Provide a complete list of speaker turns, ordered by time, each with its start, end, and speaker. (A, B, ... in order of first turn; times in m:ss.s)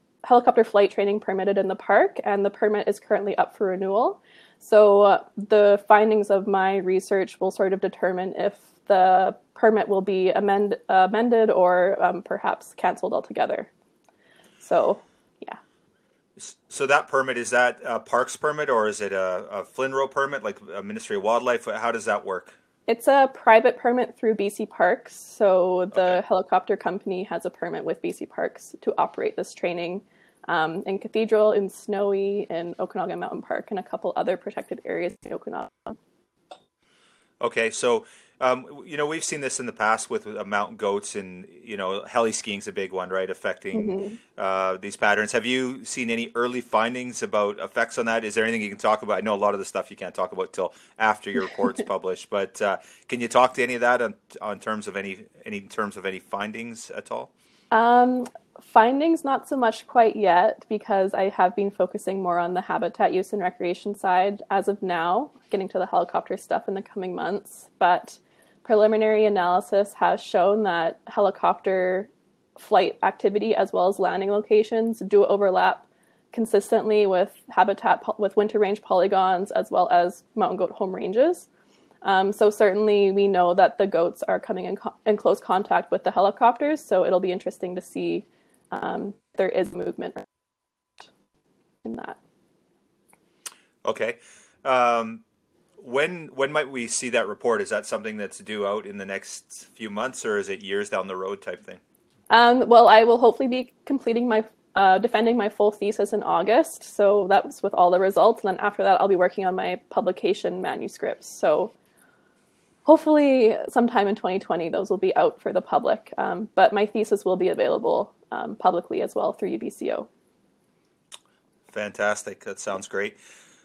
0:00.2-0:13.7 A
0:14.6-0:15.6 A
0:16.4-0:22.5 B
0:22.9-0:36.0 A
0:25.9-0:26.2 B
0:37.4-0:57.3 B
0:43.7-0:44.2 A
0:57.7-1:21.5 A
1:22.0-1:30.2 A
1:31.8-1:32.2 A
1:33.8-1:35.2 B
1:35.8-1:41.8 B
1:42.3-1:51.7 A
1:52.8-2:00.1 A
2:01.7-2:03.2 B